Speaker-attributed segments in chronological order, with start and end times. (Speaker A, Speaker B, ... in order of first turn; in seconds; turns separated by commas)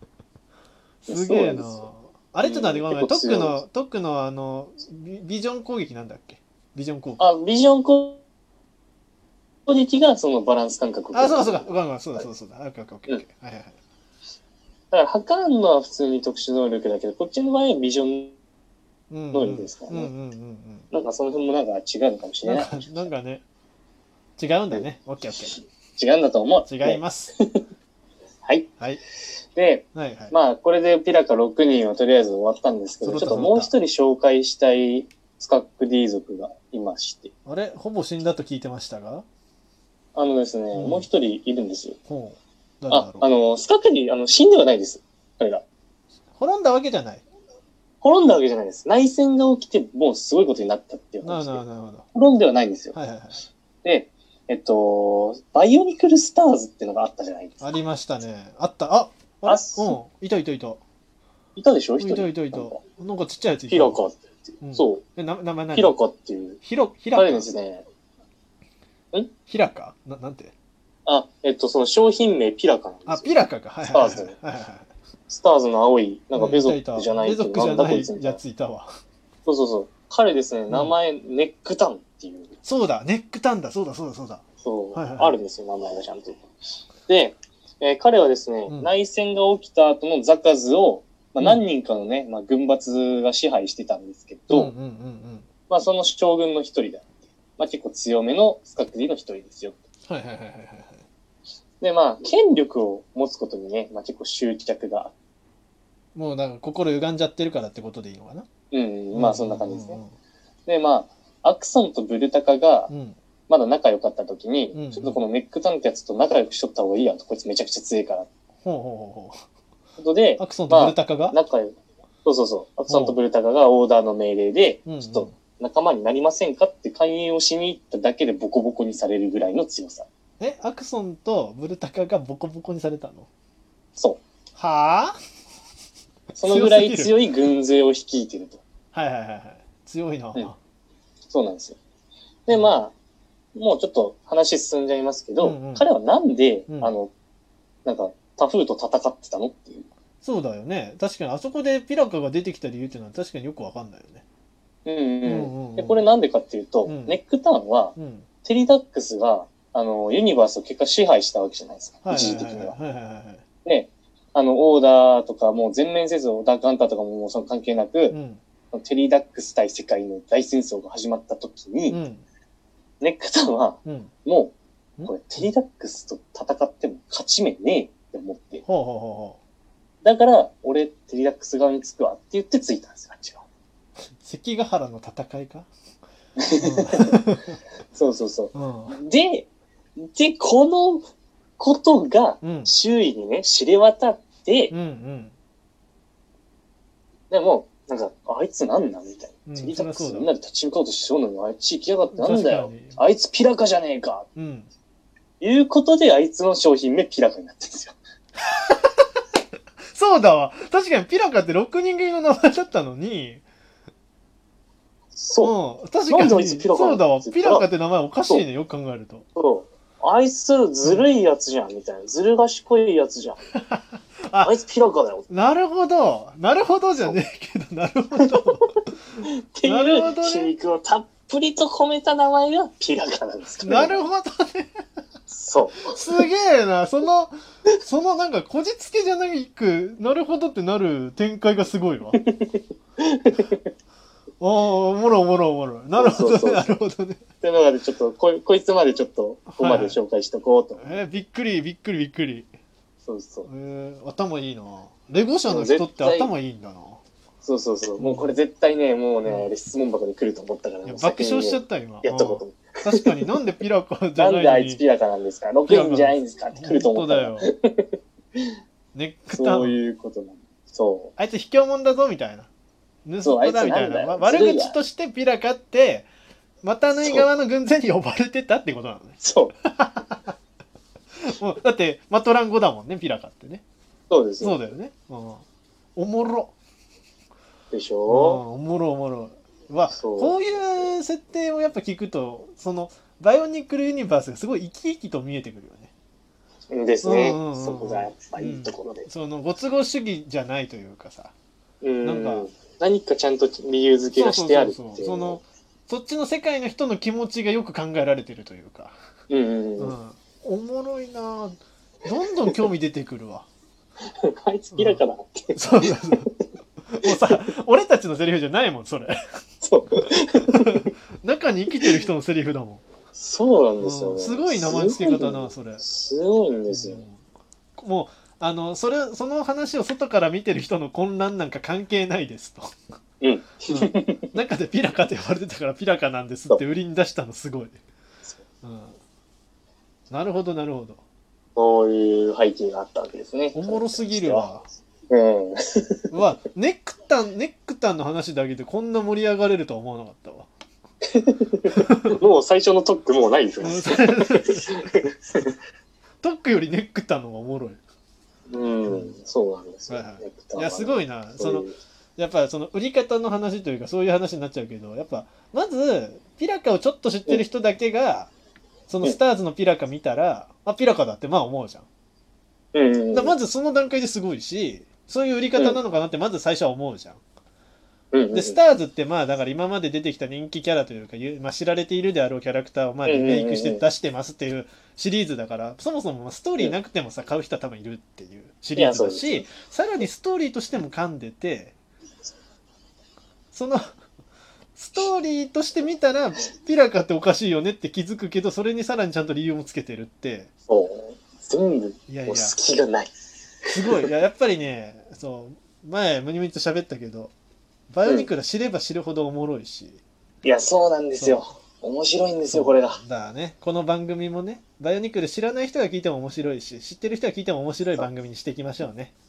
Speaker A: 1.0-7.2, Speaker B: 1.1-1.8, Speaker B: 2.4-3.6, Speaker B: 7.2-8.2, Speaker B: 9.7-12.2, Speaker A: 11.1-13.7, Speaker B: 14.9-18.4, Speaker A: 19.1-20.9, Speaker B: 19.3-20.1, Speaker B: 20.9-23.1, Speaker A: 22.4-23.4, Speaker A: 24.4-25.6, Speaker B: 26.0-27.6, Speaker A: 26.6-27.3, Speaker B: 29.5-37.3, Speaker A: 29.9-30.3, Speaker A: 33.0-33.7, Speaker A: 37.4-39.2, Speaker B: 40.1-42.0, Speaker A: 40.7-41.1, Speaker A: 42.1-43.3, Speaker B: 42.9-45.6, Speaker A: 46.4-47.2, Speaker B: 48.0-51.6, Speaker A: 51.2-52.0, Speaker B: 52.1-53.0, Speaker A: 52.9-53.4, Speaker B: 53.8-57.8, Speaker A: 57.6-60.8, Speaker B: 59.4-60.0, Speaker B: 61.5-62.8, Speaker A: 62.0-64.0, Speaker B: 63.7-65.0, Speaker A: 64.6-66.0, Speaker B: 65.7-66.6, Speaker A: 66.6-67.5, Speaker B: 67.1-67.8, Speaker A: 69.5-70.5, Speaker B: 71.0-73.3, Speaker A: 73.0-74.9, Speaker B: 73.9-74.3, Speaker B: 75.3-78.4, Speaker A: 76.3-78.9, Speaker B: 79.5-82.5, Speaker A: 80.7-81.0, Speaker A: 82.6-85.3, Speaker B: 84.6-86.4, Speaker B: 87.1-94.7, Speaker A: 88.7-88.9, Speaker A: 94.5-95.5, Speaker B: 95.7-99.8, Speaker A: 100.1-101.0, Speaker B: 101.8-105.1, Speaker A: 106.1-108.5, Speaker B: 108.7-110.0, Speaker A: 109.1-110.1, Speaker B: 110.7-112.9, Speaker A: 112.9-113.2, Speaker B: 113.5-118.3, Speaker A: 114.7-115.2, Speaker A: 118.6-119.4, Speaker B: 120.0-121.7, Speaker A: 120.4-121.4, Speaker B: 122.2-130.1, Speaker A: 122.9-123.2, Speaker A: 124.8-125.3, Speaker A: 130.4-133.3, Speaker A: 134.6-135.2, Speaker B: 136.4-138.6, Speaker A: 136.4-137.2, Speaker A: 138.9-140.6, Speaker B: 141.3-141.8, Speaker B: 142.5-142.9, Speaker A: 142.5-142.8, Speaker B: 143.5-147.1, Speaker A: 145.4-145.8, Speaker A: 146.7-146.9, Speaker B: 147.8-149.9, Speaker A: 150.2-154.2, Speaker B: 154.8-162.7, Speaker A: 155.2-156.0, Speaker A: 156.8-157.2, Speaker A: 157.9-158.3, Speaker A: 162.0-163.4, Speaker B: 163.6-168.2, Speaker A: 168.1-168.4, Speaker B: 168.7-172.0, Speaker A: 171.9-172.2, Speaker B: 173.0-174.5, Speaker A: 173.8-174.1, Speaker A: 175.0-175.4, Speaker B: 175.0-178.6, Speaker A: 178.6-179.4, Speaker B: 180.0-183.4, Speaker A: 184.2-185.7, Speaker B: 186.4-187.2, Speaker A: 186.6-187.6, Speaker B: 187.9-189.5, Speaker A: 188.5-189.0, Speaker B: 190.0-191.0, Speaker B: 191.6-194.7, Speaker A: 192.4-192.7, Speaker A: 194.7-195.3, Speaker B: 197.3-204.2, Speaker A: 199.4-200.3, Speaker A: 202.1-203.0, Speaker A: 204.3-204.7, Speaker B: 205.4-207.9, Speaker A: 208.7-209.0, Speaker A: 209.9-213.4, Speaker B: 215.2-215.5, Speaker A: 215.4-219.2, Speaker B: 216.1-217.7, Speaker B: 219.3-223.4, Speaker A: 223.7-224.5, Speaker B: 224.4-225.3, Speaker A: 225.3-228.7, Speaker B: 229.2-234.0, Speaker A: 229.6-230.5, Speaker A: 233.6-234.7, Speaker B: 235.3-236.0, Speaker A: 235.9-237.3, Speaker A: 237.8-242.2, Speaker B: 242.1-243.6, Speaker A: 244.4-247.2, Speaker B: 245.9-246.8, Speaker B: 247.4-251.0, Speaker A: 249.5-250.0, Speaker A: 250.8-252.5, Speaker B: 253.0-253.5, Speaker A: 253.4-257.0, Speaker B: 255.5-256.3, Speaker B: 257.4-263.1, Speaker A: 258.0-258.4, Speaker A: 259.2-259.5, Speaker A: 260.8-264.8, Speaker B: 264.1-268.5, Speaker A: 265.6-267.5, Speaker A: 268.9-269.8, Speaker B: 269.3-271.1, Speaker A: 271.2-272.5, Speaker A: 273.0-276.1, Speaker B: 273.2-274.8, Speaker A: 276.6-280.3, Speaker B: 276.9-277.3, Speaker B: 279.2-279.5, Speaker A: 281.2-283.6, Speaker B: 284.1-284.6, Speaker A: 284.4-285.4, Speaker A: 285.9-286.5, Speaker B: 287.7-288.4, Speaker A: 288.1-295.9, Speaker B: 289.9-290.9, Speaker B: 296.7-299.1, Speaker A: 297.0-301.3, Speaker B: 301.8-305.4, Speaker A: 302.0-302.5, Speaker A: 304.1-308.9, Speaker B: 309.3-309.9, Speaker A: 309.8-313.4, Speaker B: 314.1-316.4, Speaker A: 314.7-315.0, Speaker A: 315.5-316.3, Speaker A: 316.9-319.1, Speaker B: 319.6-320.8, Speaker A: 319.9-322.8, Speaker B: 323.1-327.0, Speaker A: 323.8-325.8, Speaker A: 326.7-327.2, Speaker A: 327.8-332.7, Speaker B: 333.2-334.2, Speaker A: 333.7-337.8, Speaker A: 338.6-339.0, Speaker A: 340.1-341.0, Speaker B: 341.6-344.5, Speaker A: 343.5-344.6, Speaker B: 345.1-346.1, Speaker A: 346.1-350.5, Speaker B: 351.1-355.5, Speaker A: 351.8-352.1, Speaker A: 353.6-354.7, Speaker A: 356.2-357.8, Speaker B: 358.5-361.7, Speaker A: 358.9-359.1, Speaker A: 359.9-368.3, Speaker A: 368.9-371.9, Speaker B: 372.7-373.3, Speaker A: 373.1-377.2, Speaker B: 378.1-378.6, Speaker A: 378.3-391.7, Speaker B: 383.0-383.8, Speaker B: 388.7-389.5, Speaker A: 393.5-393.9, Speaker A: 394.8-400.5, Speaker B: 400.7-403.1, Speaker A: 402.1-402.6, Speaker A: 403.7-407.3, Speaker A: 407.9-410.0, Speaker B: 408.0-408.3, Speaker B: 410.4-413.0, Speaker A: 411.2-411.4, Speaker A: 412.4-419.1